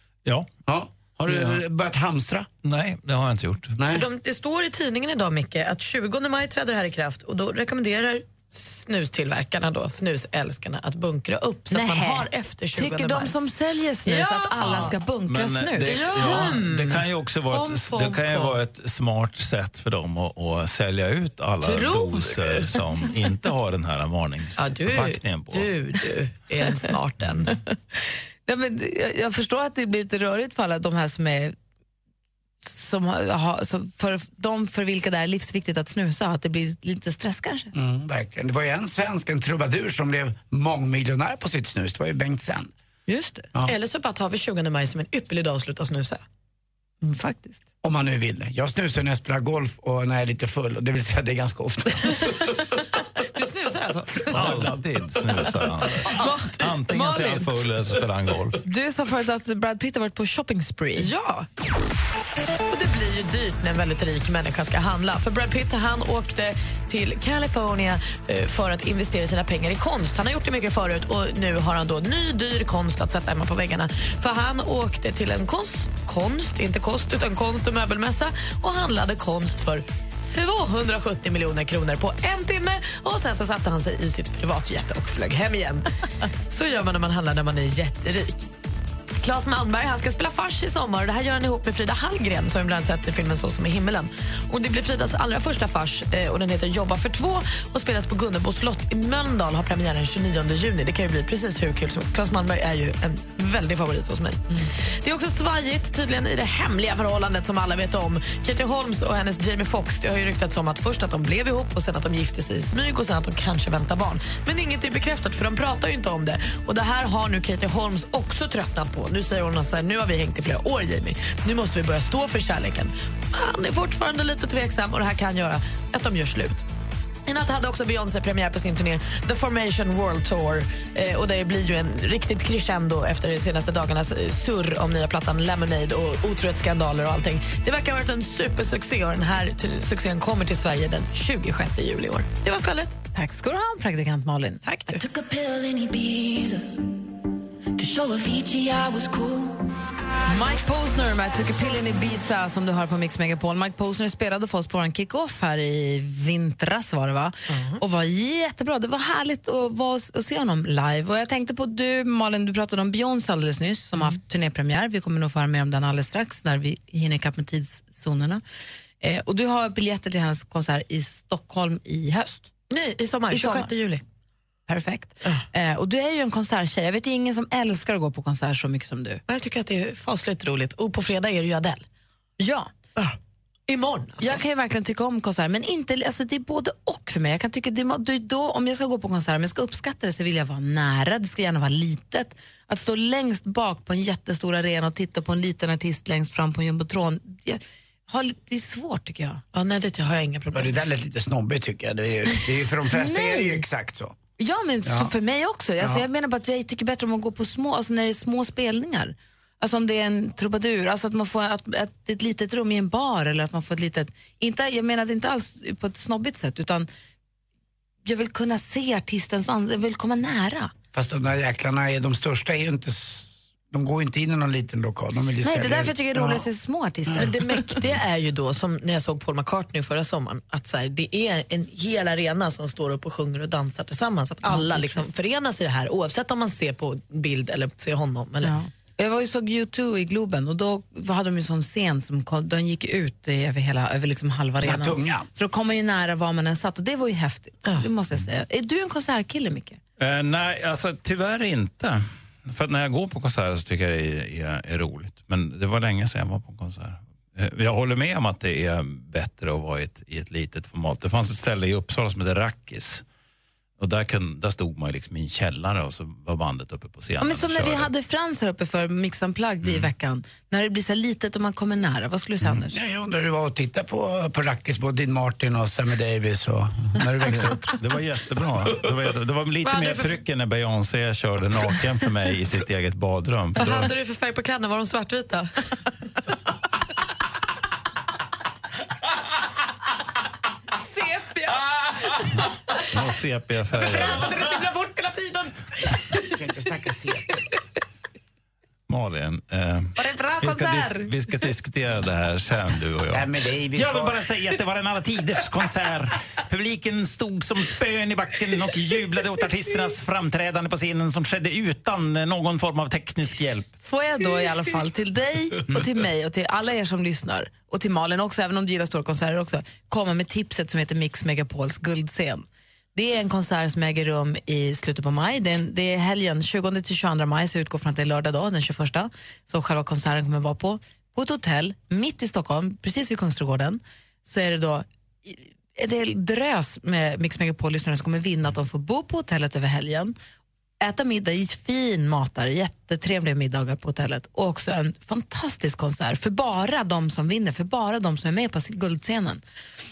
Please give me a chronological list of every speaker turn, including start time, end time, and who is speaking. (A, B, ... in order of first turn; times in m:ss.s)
0:00.6-0:02.5 A
0:01.3-0:01.6 B
0:02.6-0:03.8 B
0:03.8-0:04.0 A
0:03.8-0:13.4 C
0:11.7-0:17.0 D
0:14.0-0:15.0 C
0:14.7-0:25.7 B
0:15.8-0:18.6 C
0:21.6-0:23.0 C
0:24.6-0:27.6 C
0:28.4-0:31.5 D
0:32.6-0:37.7 D
0:37.7-0:42.7 A
0:43.1-0:43.4 D
0:43.6-0:46.2 C
0:47.0-0:47.6 D
0:47.8-0:52.1 A
0:53.2-0:54.7 C
0:54.3-0:58.6 B
0:56.0-0:57.4 C
0:56.9-0:57.4 D
0:58.6-1:01.1 D
1:01.0-1:01.5 C
1:02.7-1:25.8 C
1:26.5-1:28.5 C
1:29.2-2:06.6 C
2:07.2-2:23.0 C
2:23.1-2:24.6 D
2:24.6-2:25.0 C
2:24.9-2:26.8 E
2:27.8-2:29.6 E
2:30.3-2:48.4 D
2:37.5-2:37.8 C
2:49.0-2:52.5 D
2:52.7-2:54.0 C
2:53.3-2:53.7 D
2:54.7-2:59.2 D
2:59.3-3:01.8 C
3:02.4-3:02.7 D
3:03.7-3:04.4 C
3:04.2-3:19.4 D
3:19.5-3:20.7 C
3:20.5-3:24.2 A
3:22.9-3:23.6 D
3:24.4-3:36.9 D
3:24.8-3:25.1 A
3:25.8-3:26.0 A
3:38.0-3:40.7 D
3:40.9-3:46.5 A
3:45.4-3:47.3 D
3:47.2-3:58.6 C
3:54.4-3:55.1 D
3:58.4-4:09.8 D
4:04.6-4:05.3 A
4:10.0-4:23.0 B
4:23.8-4:27.9 B
4:27.2-4:32.8 D
4:29.6-4:29.9 B
4:32.7-4:37.6 A
4:37.7-4:43.9 B
4:39.6-4:40.2 C
4:43.6-4:45.5 C
4:51.0-4:51.5 D
4:52.9-4:54.3 B
4:53.7-4:56.2 C
4:56.3-4:57.3 A
4:58.9-5:13.7 B
5:00.0-5:01.1 D
5:03.0-5:04.2 A
5:13.8-5:40.1 D
5:40.8-5:49.4 D